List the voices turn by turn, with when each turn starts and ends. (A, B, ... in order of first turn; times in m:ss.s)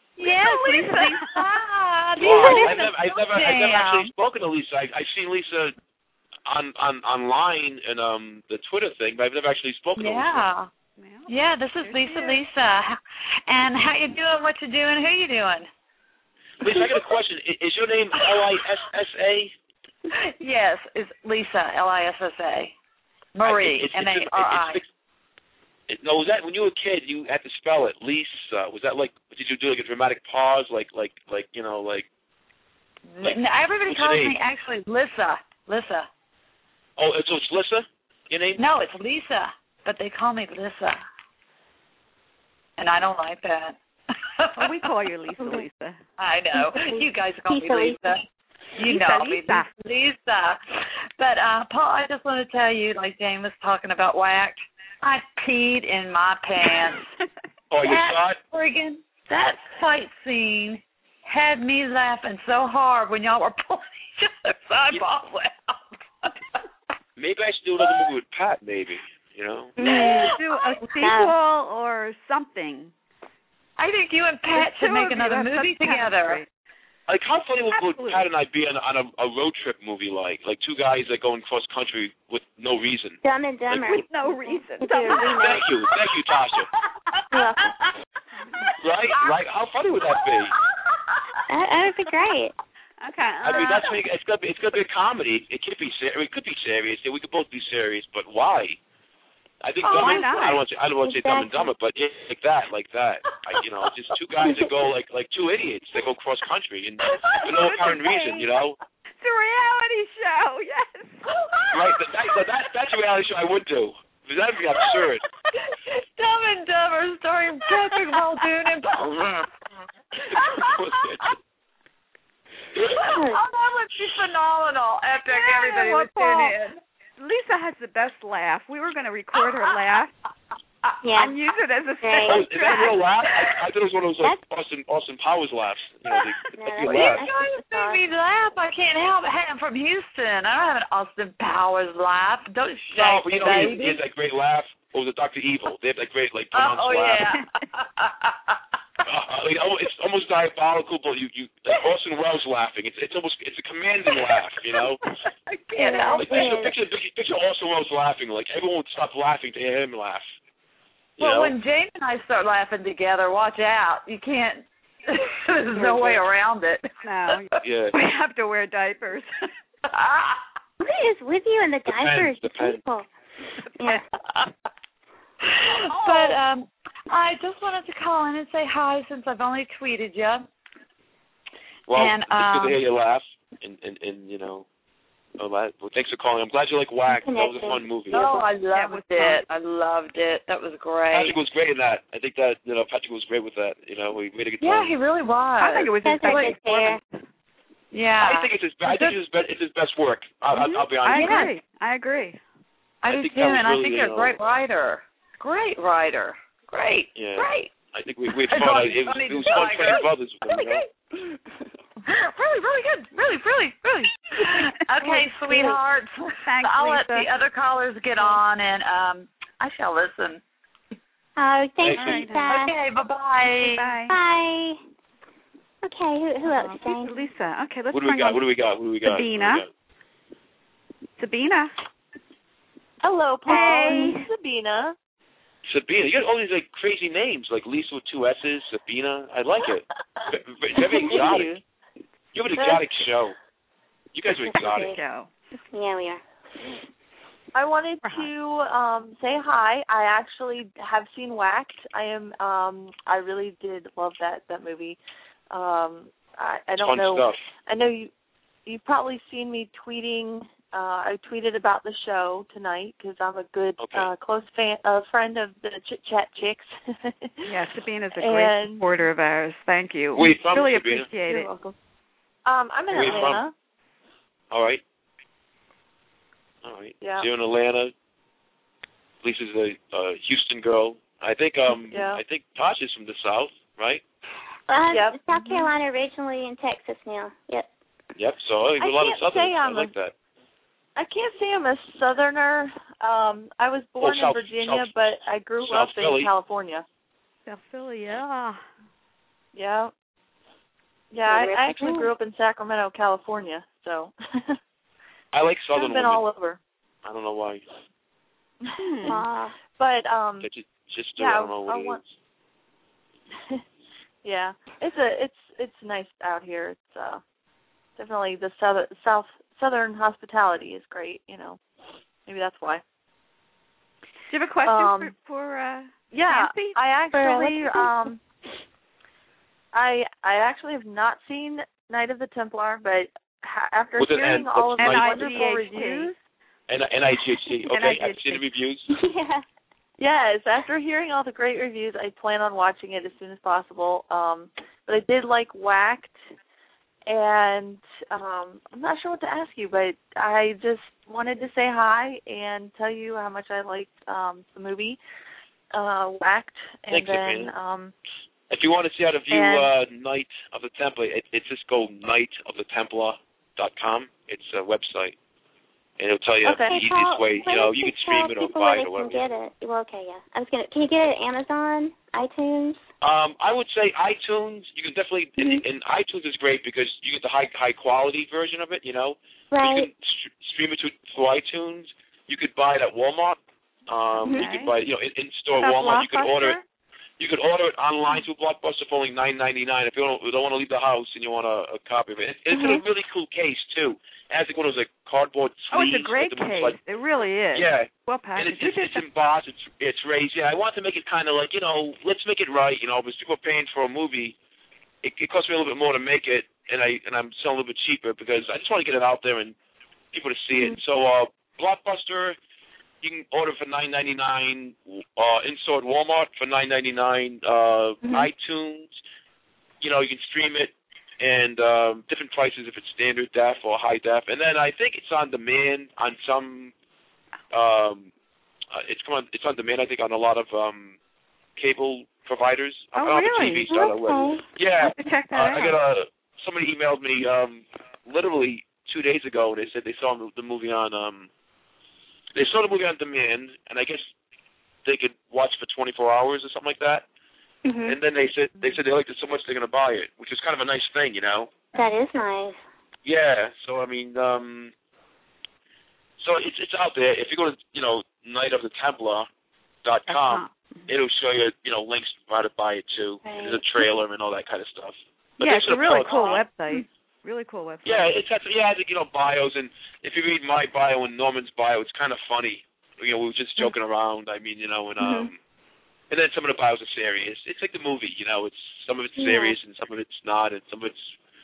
0:00.2-0:04.1 A
0:00.2-0:01.5 B
0:02.2-0:05.8 C
0:06.5-0:10.5 C
0:10.0-0:10.7 A
0:11.0-0:12.4 B
0:11.3-0:15.7 A
0:16.6-0:19.5 C
0:16.6-0:17.1 A
0:20.1-0:22.7 A
0:23.4-0:24.8 A
0:23.4-0:24.9 C
0:25.9-0:32.1 C
0:33.1-0:36.1 A
0:33.2-0:34.4 C
0:37.0-0:38.6 C
0:38.6-0:41.0 A
0:42.8-0:43.8 A
0:44.4-0:44.9 A
0:44.6-0:46.0 B
0:46.2-0:48.2 A
0:46.8-0:48.1 D
0:48.8-0:57.1 A
0:48.8-0:49.7 B
0:57.7-0:58.4 C
0:57.8-1:06.6 A
1:07.2-1:09.8 C
1:09.8-1:10.3 D
1:09.8-1:11.1 A
1:09.8-1:12.9 B
1:11.0-1:11.3 D
1:13.8-1:16.4 A
1:14.5-1:16.5 B
1:17.1-1:23.2 C
1:17.8-1:18.3 B
1:23.2-1:25.7 D
1:23.7-1:25.4 B
1:25.4-1:26.7 C
1:26.3-1:27.9 A
1:28.4-1:28.7 B
1:28.7-1:29.4 A
1:28.8-1:30.5 C
1:30.0-1:31.4 A
1:31.5-1:32.5 D
1:33.0-1:33.9 B
1:33.4-1:38.8 C
1:39.6-1:48.8 C
1:39.8-1:40.2 A
1:39.9-1:40.6 B
1:41.0-1:41.7 D
1:43.3-1:43.6 A
1:47.0-1:47.5 A
1:47.4-1:48.5 B
1:49.2-1:51.2 B
1:51.3-1:52.4 A
1:51.7-1:55.2 C
1:54.8-1:59.2 A
1:57.8-1:58.4 B
2:00.2-2:01.4 A
2:00.6-2:01.2 C
2:02.9-2:06.8 A
2:03.1-2:03.4 D
2:05.3-2:06.6 B
2:07.2-2:10.1 B
2:09.4-2:09.8 A
2:11.0-2:11.4 D
2:11.2-2:13.0 B
2:12.0-2:12.4 D
2:12.3-2:17.2 C
2:13.2-2:13.6 A
2:16.6-2:18.0 D
2:16.8-2:24.0 A
2:22.9-2:27.3 C
2:26.5-2:28.6 A
2:29.0-2:35.0 C
2:35.3-2:36.6 A
2:35.8-2:36.7 D
2:36.2-2:40.3 C
2:41.2-2:41.6 C
2:41.2-2:47.4 A
2:45.8-2:46.2 B
2:47.0-2:49.3 B
2:47.6-2:48.0 C
2:49.9-2:50.4 A
2:50.8-2:53.1 D
2:51.9-2:52.8 C
2:53.8-2:54.0 D
2:54.2-2:54.5 A
2:55.4-3:00.5 A
2:55.9-2:56.4 B
3:01.9-3:04.7 C
3:01.9-3:02.8 A
3:05.4-3:08.2 C
3:07.1-3:08.2 D
3:08.1-3:11.4 A
3:08.3-3:09.4 B
3:11.1-3:14.9 C
3:14.6-3:16.6 A
3:15.6-3:17.0 B
3:16.0-3:17.0 D
3:17.9-3:19.2 A
3:18.2-3:21.5 C
3:20.5-3:22.4 B
3:21.1-3:21.6 A
3:23.0-3:27.7 A
3:23.1-3:24.4 C
3:27.2-3:30.8 C
3:28.3-3:30.8 A
3:32.0-3:40.4 A
3:34.4-3:35.2 B
3:35.5-3:35.8 D
3:36.4-3:37.3 B
3:38.2-3:38.4 B
3:41.4-3:42.7 D
3:41.8-3:42.2 C
3:42.0-3:42.6 B
3:42.5-3:43.9 A
3:43.5-3:44.2 B
3:44.1-3:44.8 D
3:45.8-3:47.3 D
3:46.5-3:48.4 B
3:47.9-3:49.7 C
3:49.0-3:49.6 B
3:51.2-3:51.7 B
3:53.0-3:55.0 E
3:53.5-3:54.3 B
3:53.5-3:54.2 D
3:55.7-4:01.6 C
4:02.3-4:03.4 C
4:04.1-4:05.0 C
4:04.4-4:05.0 D
4:04.8-4:05.3 B
4:05.7-4:06.2 D
4:07.5-4:15.0 E
4:08.0-4:08.3 B
4:15.5-4:18.1 E
4:16.8-4:17.4 C
4:18.7-4:27.5 E
4:23.8-4:24.1 C
4:27.5-4:31.5 B
4:28.2-4:28.9 E
4:30.2-4:31.1 C
4:31.3-4:31.8 E
4:32.5-4:33.5 E
4:32.9-4:33.4 C
4:34.5-4:34.8 C
4:36.6-4:37.9 C
4:37.0-4:37.3 E
4:39.2-4:44.0 C
4:41.9-4:42.2 E
4:44.7-4:47.7 D
4:44.9-4:45.6 E
4:48.2-4:50.1 C
4:48.8-4:49.9 E
4:51.0-4:56.8 E
4:54.0-4:55.0 C
4:55.6-4:56.3 C
4:57.5-4:58.6 B
4:59.6-4:59.9 E
5:01.1-5:04.6 E
5:01.3-5:02.1 D
5:05.3-5:06.2 C
5:05.8-5:06.6 E
5:07.0-5:07.6 C
5:08.6-5:09.2 E
5:08.8-5:09.2 B
5:09.0-5:09.6 D
5:09.8-5:10.5 E
5:10.4-5:12.0 C
5:11.2-5:12.0 E
5:14.2-5:17.2 E
5:18.0-5:21.6 E
5:22.3-5:22.8 E
5:24.3-5:26.8 B
5:24.6-5:25.1 E
5:26.1-5:28.2 E
5:27.1-5:27.9 D
5:29.7-5:36.2 E
5:34.0-5:35.4 C
5:34.8-5:36.1 B
5:36.7-5:38.9 C
5:37.7-5:38.5 B
5:38.9-5:39.4 D
5:40.0-5:46.2 E
5:47.1-5:55.0 E
5:55.7-5:57.9 E
5:56.9-5:57.5 C
5:58.5-6:05.2 C
5:59.3-5:59.7 E
6:06.0-6:09.2 C
6:06.4-6:06.8 E
6:06.6-6:12.8 D
6:13.0-6:26.6 C
6:15.4-6:15.6 D
6:19.5-6:19.9 D
6:24.3-6:24.7 B
6:25.6-6:26.6 B
6:27.2-6:36.8 C
6:32.5-6:32.8 D
6:35.7-6:39.0 B
6:37.5-6:44.4 C
6:45.0-6:49.6 C
6:50.1-6:52.4 C
6:53.0-6:59.0 C
6:58.0-6:58.3 D
6:59.8-7:06.7 C
7:07.5-7:08.1 C
7:08.7-7:11.0 C
7:11.6-7:21.3 C
7:13.0-7:13.7 B
7:13.7-7:14.4 D
7:14.8-7:15.8 B
7:22.3-7:24.1 C
7:24.8-7:27.0 C
7:27.6-7:28.0 D
7:27.9-7:31.5 C
7:31.8-7:32.6 D
7:33.0-7:34.7 C
7:36.2-7:39.3 C
7:39.8-7:46.4 C
7:40.1-7:40.9 B
7:43.2-7:43.6 D
7:45.4-7:48.1 B
7:46.0-7:46.8 D
7:47.8-7:55.4 C
7:55.0-7:55.3 D
7:56.1-8:01.2 C
7:59.2-7:59.6 D